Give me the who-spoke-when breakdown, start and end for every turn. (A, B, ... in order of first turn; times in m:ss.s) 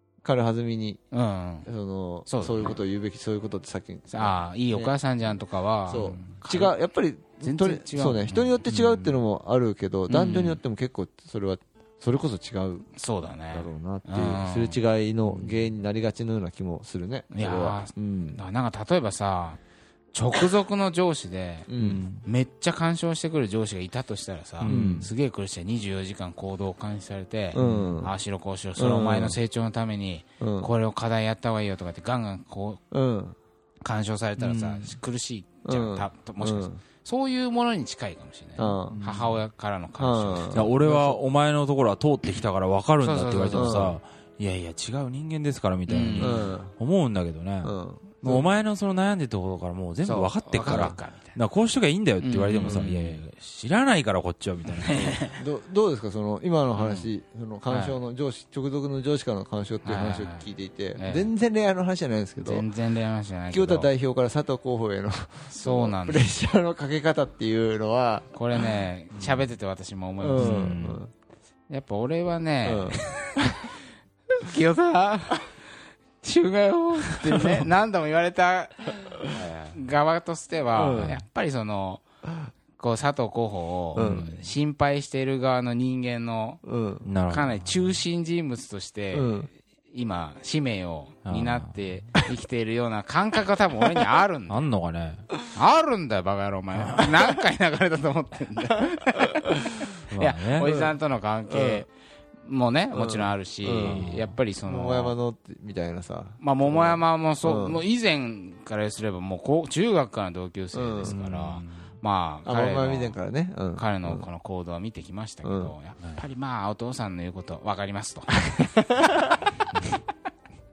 0:00.2-0:01.0 A
0:01.1-0:01.7 B
0:01.6-0:04.9 A
0:02.3-0:02.7 B
0:04.1-0:06.7 B
0:05.9-0:12.9 A
0:06.0-0:06.3 C
0:07.4-0:08.6 B
0:08.7-0:09.2 C
0:10.1-0:10.6 B
0:13.0-0:14.8 B
0:13.5-0:18.4 A
0:17.3-0:19.6 B
0:20.1-0:32.8 B
0:21.7-0:22.0 A
0:21.8-0:22.2 C
0:24.6-0:25.0 C
0:24.6-0:25.1 A
0:27.5-0:28.1 A
0:27.6-0:27.9 C
0:28.8-0:29.4 A
0:30.4-0:30.7 A
0:32.9-0:33.4 A
0:33.8-0:40.6 B
0:34.4-0:34.9 C
0:35.6-0:36.8 A
0:38.6-0:39.0 A
0:38.9-0:39.4 C
0:40.0-0:41.2 A
0:40.5-0:55.2 C
0:43.0-0:43.9 B
0:43.5-0:44.0 A
0:45.9-0:46.5 B
0:46.1-0:46.7 A
0:47.6-0:48.5 A
0:50.0-0:51.4 B
0:50.6-0:51.0 A
0:52.2-0:52.9 B
0:52.6-0:53.1 A
0:54.8-0:55.4 B
0:54.9-1:02.7 A
0:56.7-0:57.1 B
0:57.7-0:58.0 B
0:59.8-1:01.3 B
1:02.4-1:03.9 B
1:03.5-1:08.7 A
1:05.5-1:06.3 B
1:08.3-1:10.7 B
1:10.2-1:11.1 A
1:10.4-1:11.0 C
1:11.7-1:13.8 B
1:12.6-1:13.1 A
1:14.4-1:15.7 B
1:16.2-1:22.0 B
1:19.3-1:19.7 C
1:20.7-1:21.2 A
1:20.9-1:21.2 C
1:22.8-1:26.6 B
1:23.9-1:24.3 A
1:23.9-1:24.4 C
1:26.6-1:27.0 A
1:27.0-1:27.6 C
1:27.3-1:34.6 B
1:29.1-1:29.5 A
1:31.2-1:32.0 C
1:34.5-1:35.3 C
1:35.5-1:41.9 B
1:36.7-1:37.0 C
1:40.1-1:40.7 C
1:40.6-1:40.9 A
1:41.5-1:41.8 A
1:42.4-1:45.1 B
1:42.9-1:44.0 A
1:43.8-1:44.3 C
1:44.6-1:47.8 A
1:46.4-1:53.2 B
1:50.7-1:51.1 A
1:51.0-1:51.9 C
1:52.4-1:54.2 A
1:53.7-1:59.0 B
1:55.4-1:55.7 A
1:58.9-1:59.4 A